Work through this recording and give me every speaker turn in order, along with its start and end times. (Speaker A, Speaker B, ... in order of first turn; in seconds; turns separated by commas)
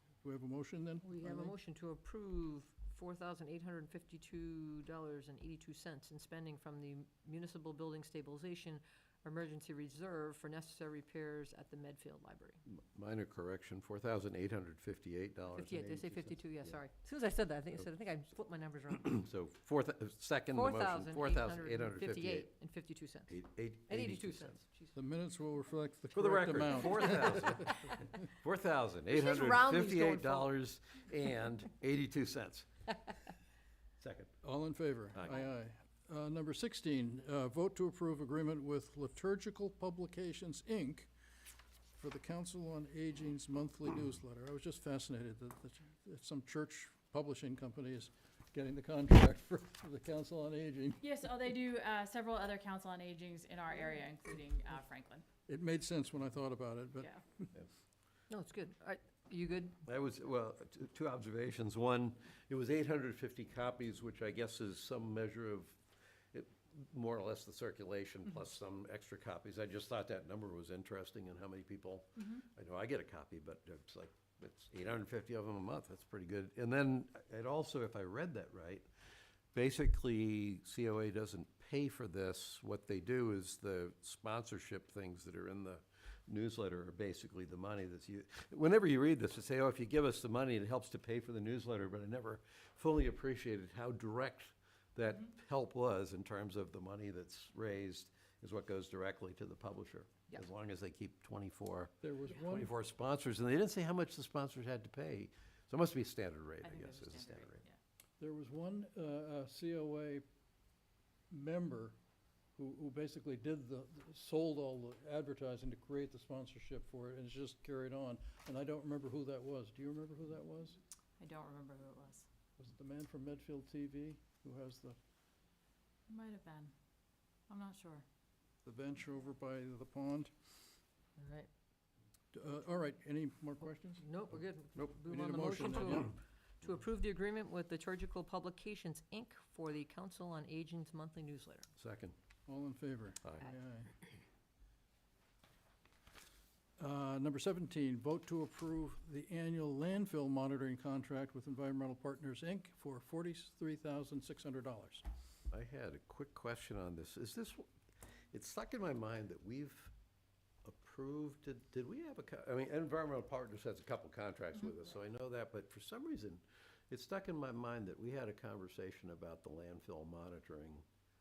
Speaker A: 0.2-1.5, Speaker B: 1.0-12.6, Speaker C: 12.7-16.8, Speaker B: 15.5-19.2, Speaker C: 19.0-22.5, Speaker B: 20.5-23.3, Speaker C: 23.3-24.6, Speaker B: 23.9-24.9, Speaker A: 24.9-27.6, Speaker C: 26.1-32.7, Speaker B: 29.1-30.5, Speaker C: 34.0-34.3, Speaker A: 34.4-41.1, Speaker C: 35.1-35.4, Speaker A: 42.0-51.0, Speaker D: 51.0-55.2, Speaker A: 55.5-57.5, Speaker B: 58.3-59.8, Speaker C: 59.8-65.8, Speaker C: 66.3-78.9, Speaker C: 79.5-101.9, Speaker A: 102.0-102.7, Speaker C: 102.5-107.6, Speaker D: 106.6-107.8, Speaker A: 108.2-110.2, Speaker A: 111.3-112.0, Speaker A: 112.5-120.8, Speaker D: 121.2-122.3, Speaker A: 122.6-125.0, Speaker D: 126.1-126.7, Speaker D: 127.5-128.0, Speaker A: 128.6-130.3, Speaker B: 131.2-131.5, Speaker A: 132.3-134.0, Speaker B: 134.0-141.7, Speaker A: 135.1-136.1, Speaker C: 141.8-142.1, Speaker A: 142.5-143.9, Speaker A: 146.8-155.0, Speaker C: 155.5-157.7, Speaker C: 158.3-159.9, Speaker C: 160.6-170.8